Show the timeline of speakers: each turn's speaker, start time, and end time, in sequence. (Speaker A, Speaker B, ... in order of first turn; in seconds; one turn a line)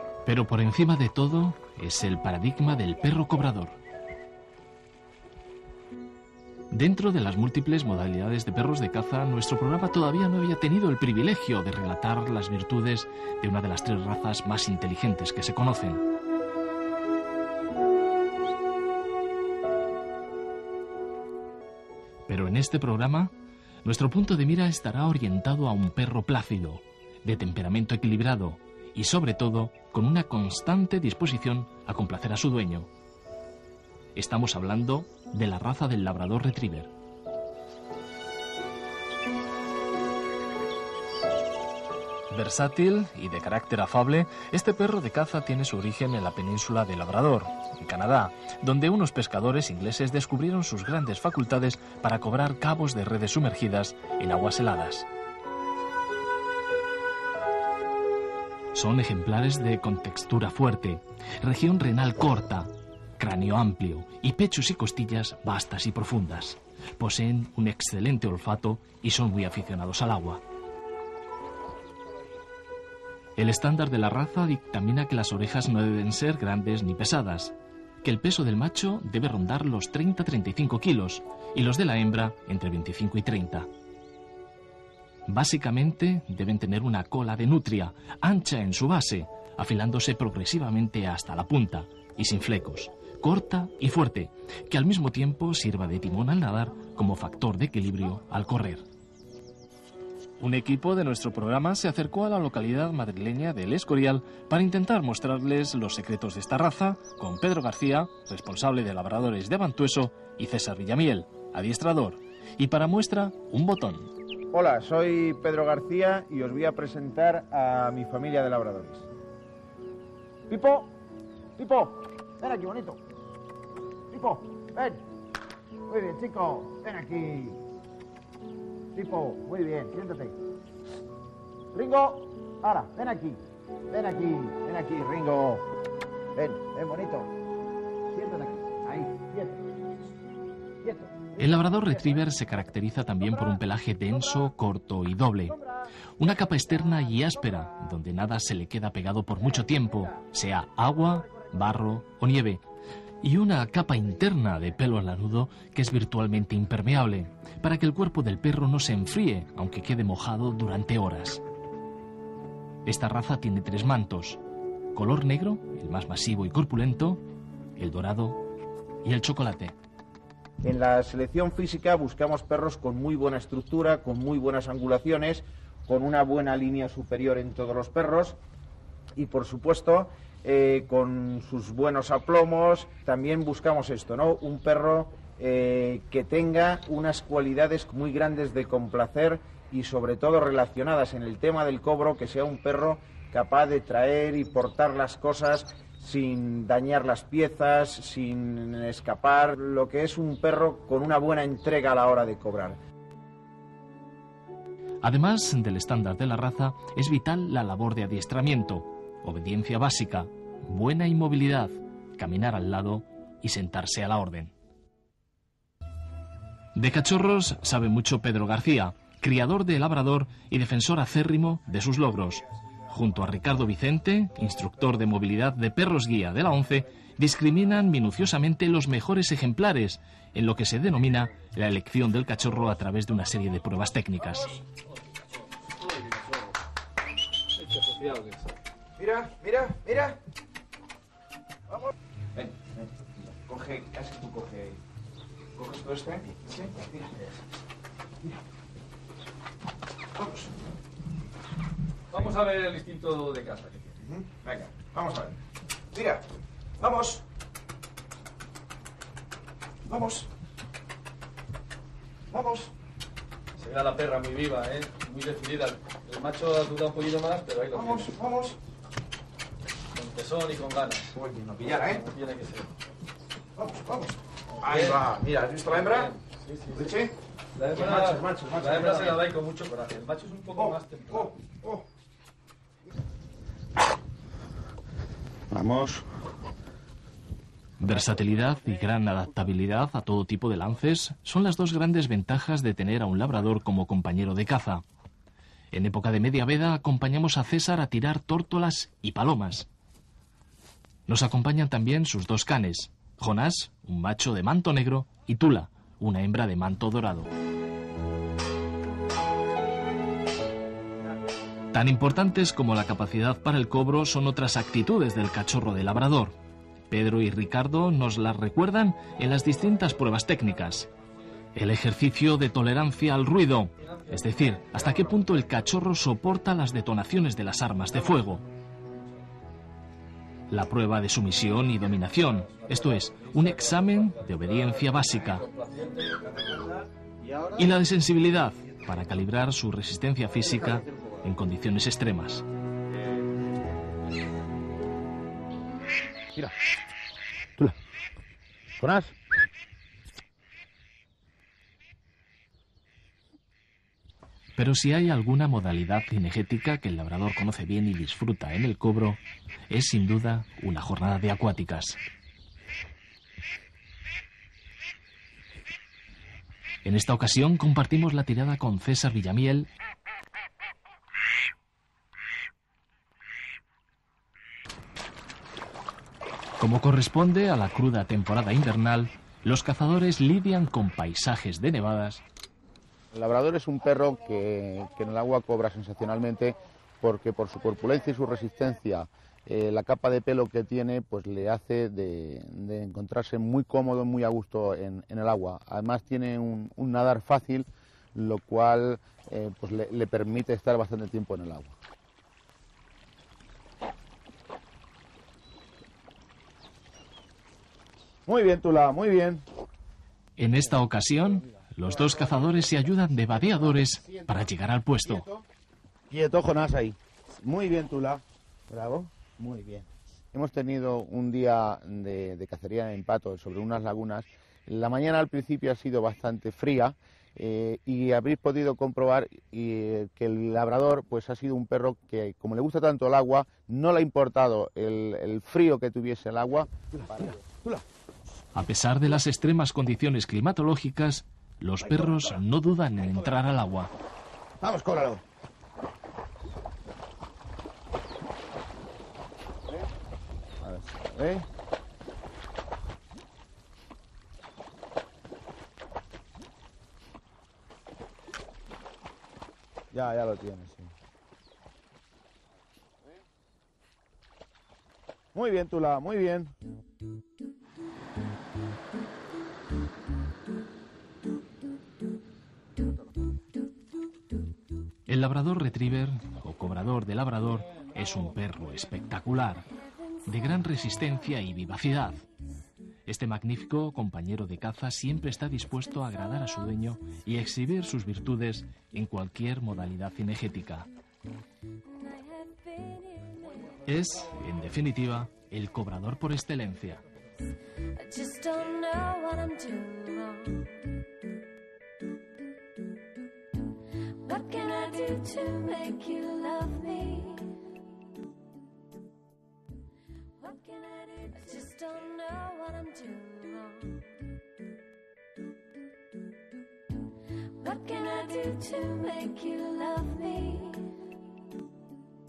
Speaker A: 0.2-3.8
Speaker A: 6.7-16.0
Speaker A: 22.3-32.9
Speaker A: 34.1-36.9
Speaker A: 42.3-55.1
Speaker A: 58.7-70.4
Speaker A: 73.4-83.7
Speaker A: 85.3-98.8
Speaker A: 100.4-114.1
Speaker B: 114.5-119.1
Speaker B: 120.5-121.0
Speaker B: 121.6-123.0
Speaker B: 124.1-125.0
Speaker B: 125.9-127.6
Speaker B: 128.9-130.4
Speaker B: 131.7-135.7
Speaker B: 136.4-137.3
Speaker B: 138.1-139.7
Speaker B: 140.8-142.2
Speaker A: 141.4-145.6
Speaker B: 143.2-143.6
Speaker A: 146.2-152.6
Speaker A: 153.2-161.4
Speaker A: 162.8-164.4
Speaker A: 164.9-167.2
Speaker A: 167.8-168.4
Speaker A: 169.0-169.8
Speaker B: 170.6-178.4
Speaker B: 179.2-202.8
Speaker A: 205.0-214.5
Speaker A: 216.8-234.5
Speaker C: 237.5-238.5
Speaker B: 239.0-240.2
Speaker B: 241.7-244.8
Speaker B: 245.6-247.4
Speaker B: 250.2-250.5
Speaker C: 252.1-253.9
Speaker B: 254.0-255.4
Speaker B: 255.9-256.3
Speaker B: 256.8-257.2
Speaker B: 259.9-260.3
Speaker B: 262.3-262.7
Speaker C: 263.6-268.1
Speaker B: 267.8-268.6
Speaker C: 269.9-271.2
Speaker B: 271.1-272.0
Speaker C: 271.8-272.7
Speaker B: 273.6-276.1
Speaker C: 274.6-275.0
Speaker C: 275.6-276.9
Speaker B: 276.7-277.1
Speaker C: 277.6-281.3
Speaker B: 277.7-279.2
Speaker B: 280.6-281.8
Speaker D: 285.5-286.1
Speaker A: 287.8-294.8
Speaker A: 295.7-299.7
Speaker A: 301.1-307.3
Speaker A: 311.7-316.4
Speaker A: 316.9-320.9
Speaker A: 321.5-328.4
Speaker C: 323.8-324.9
Speaker A: 330.5-335.5
Speaker C: 332.5-336.8
Speaker A: 337.5-342.4
Speaker D: 348.8-349.1
Speaker A: 354.6-362.0
Speaker A: 366.9-369.7
Speaker A: 376.6-382.2
Speaker D: 383.1-401.7
Speaker D: 408.3-409.4
Speaker A: 410.4-415.3
Speaker D: 412.1-412.6
Speaker D: 413.3-414.5
Speaker D: 415.1-415.5
Speaker D: 416.1-437.8
Speaker A: 438.5-443.9
Speaker D: 444.6-445.2
Speaker D: 450.6-451.5
Speaker D: 459.9-460.9
Speaker D: 465.3-466.5
Speaker A: 475.1-479.7
Speaker A: 480.2-482.3
Speaker A: 483.1-490.9
Speaker E: 491.9-493.8
Speaker A: 493.8-497.0
Speaker E: 497.9-500.8
Speaker E: 504.0-507.7
Speaker E: 510.4-514.2
Speaker E: 517.4-521.1